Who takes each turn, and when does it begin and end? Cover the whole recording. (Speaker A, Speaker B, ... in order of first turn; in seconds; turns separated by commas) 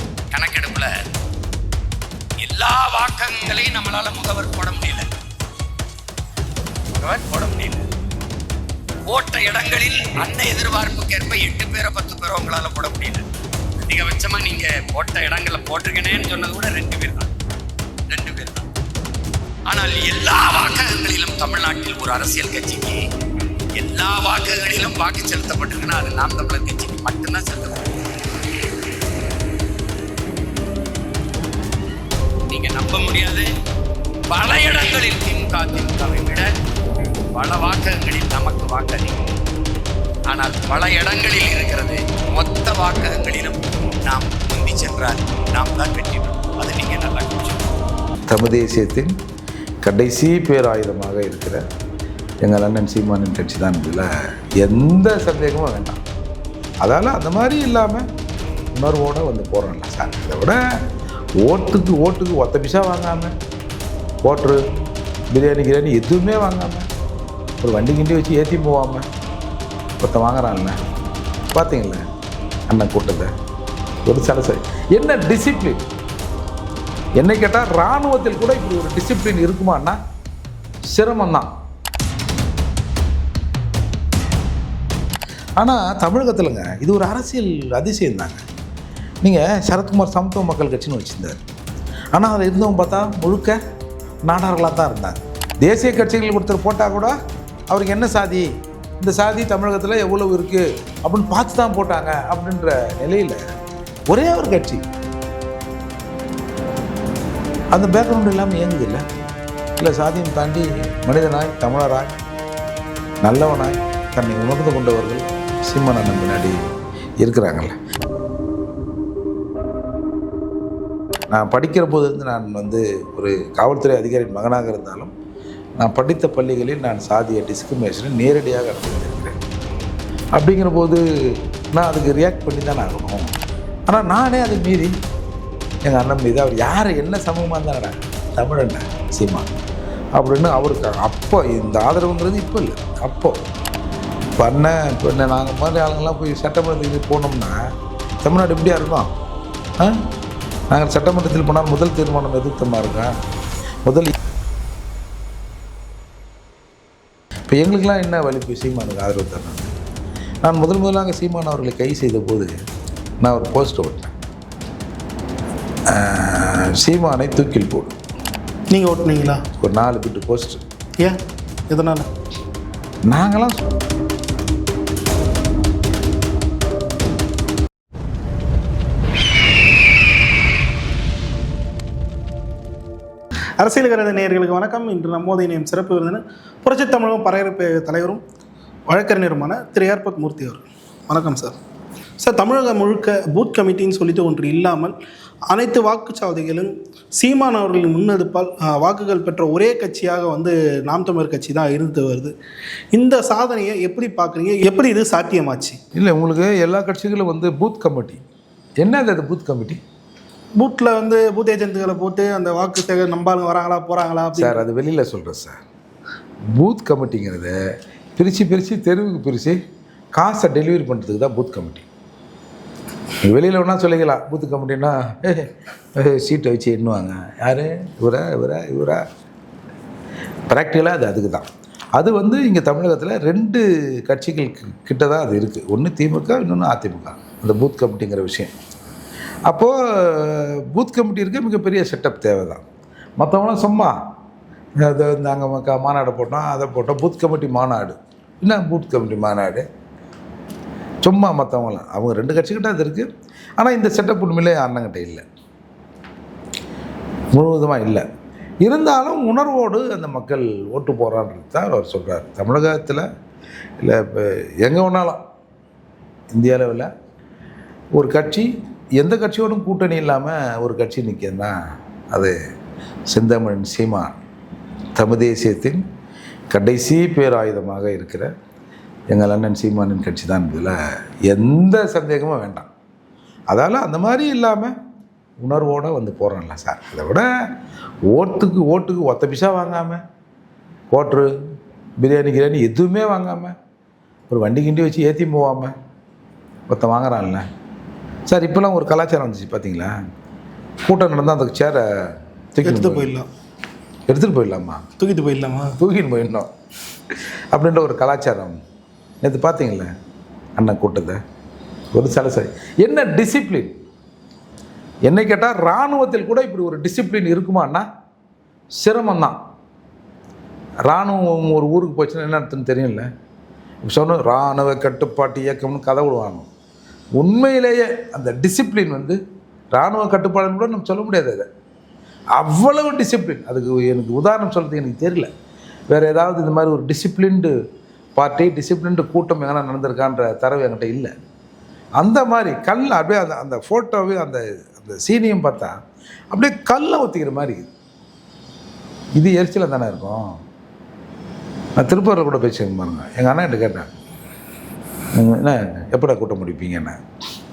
Speaker A: 0.3-0.9, Speaker A: 2.4-5.1, Speaker A: 7.0-7.8, Speaker A: 9.1-13.2, Speaker A: 13.8-17.3, Speaker A: 18.1-18.7, Speaker A: 19.7-23.0, Speaker A: 23.8-27.9, Speaker A: 32.5-33.5, Speaker A: 34.3-36.5, Speaker A: 37.3-39.1, Speaker A: 40.3-47.6, Speaker B: 48.3-49.1, Speaker B: 49.8-51.6, Speaker B: 52.4-54.1, Speaker B: 54.6-56.0, Speaker B: 56.8-58.0, Speaker B: 58.7-60.6, Speaker B: 61.4-63.3, Speaker B: 64.2-64.6, Speaker B: 65.3-66.9, Speaker B: 67.6-69.0, Speaker B: 70.0-70.8, Speaker B: 71.5-72.0, Speaker B: 72.7-73.3, Speaker B: 74.0-75.8, Speaker B: 77.2-80.0, Speaker B: 80.9-81.5, Speaker B: 85.6-88.4, Speaker B: 89.2-91.4, Speaker B: 92.1-93.6, Speaker B: 94.2-97.1, Speaker B: 97.7-98.5, Speaker B: 99.0-103.4, Speaker B: 104.1-104.8, Speaker B: 107.7-109.0, Speaker B: 109.8-112.1, Speaker B: 113.2-116.6, Speaker B: 117.2-117.8, Speaker B: 121.3-125.1, Speaker B: 125.8-129.4, Speaker B: 130.3-131.0, Speaker B: 131.7-133.3, Speaker B: 133.9-134.9, Speaker B: 135.8-139.4, Speaker B: 140.2-143.4, Speaker B: 144.4-147.6, Speaker B: 148.2-149.1, Speaker B: 150.7-153.2, Speaker B: 153.8-154.1, Speaker B: 157.5-159.7, Speaker B: 160.4-162.6, Speaker B: 163.2-164.1, Speaker B: 165.9-167.9, Speaker C: 168.7-169.4, Speaker B: 169.6-170.6, Speaker C: 171.7-172.1, Speaker B: 173.1-173.6, Speaker C: 183.6-188.2, Speaker C: 188.9-191.6, Speaker C: 192.2-194.9, Speaker C: 195.5-202.3, Speaker C: 202.9-205.8, Speaker B: 205.9-208.2, Speaker B: 208.8-209.8, Speaker C: 210.6-214.6, Speaker B: 214.3-215.6, Speaker B: 216.5-217.6, Speaker B: 218.2-219.6, Speaker B: 220.1-221.8, Speaker B: 223.2-229.0, Speaker B: 230.5-238.5, Speaker B: 239.5-242.6, Speaker B: 243.2-244.0, Speaker B: 244.8-249.7, Speaker B: 251.0-255.2, Speaker B: 257.3-258.0, Speaker B: 258.6-263.0, Speaker B: 263.8-265.2, Speaker B: 266.3-266.9, Speaker B: 267.9-271.5, Speaker B: 273.1-274.2, Speaker B: 274.9-275.8, Speaker B: 276.5-278.3, Speaker B: 279.1-280.7, Speaker B: 281.3-282.7, Speaker B: 283.5-284.7, Speaker B: 285.4-287.3, Speaker B: 288.1-290.0, Speaker B: 290.9-291.3, Speaker B: 292.0-293.5, Speaker B: 294.3-295.7, Speaker B: 296.7-297.4, Speaker B: 298.3-299.9, Speaker B: 300.8-303.1, Speaker C: 302.6-303.3, Speaker B: 304.1-304.8, Speaker C: 305.0-305.8, Speaker B: 305.8-306.5, Speaker B: 307.5-308.6, Speaker B: 309.2-309.9, Speaker B: 310.6-311.2, Speaker B: 311.9-313.8, Speaker B: 315.1-317.9, Speaker B: 318.8-319.4, Speaker B: 320.9-323.1, Speaker B: 323.8-326.5, Speaker B: 327.2-329.2, Speaker B: 329.7-331.5, Speaker B: 332.3-335.3, Speaker B: 335.9-337.5, Speaker B: 338.1-341.1, Speaker B: 342.0-345.8, Speaker B: 346.3-347.7, Speaker B: 349.2-350.4, Speaker B: 351.8-353.9, Speaker B: 355.1-357.0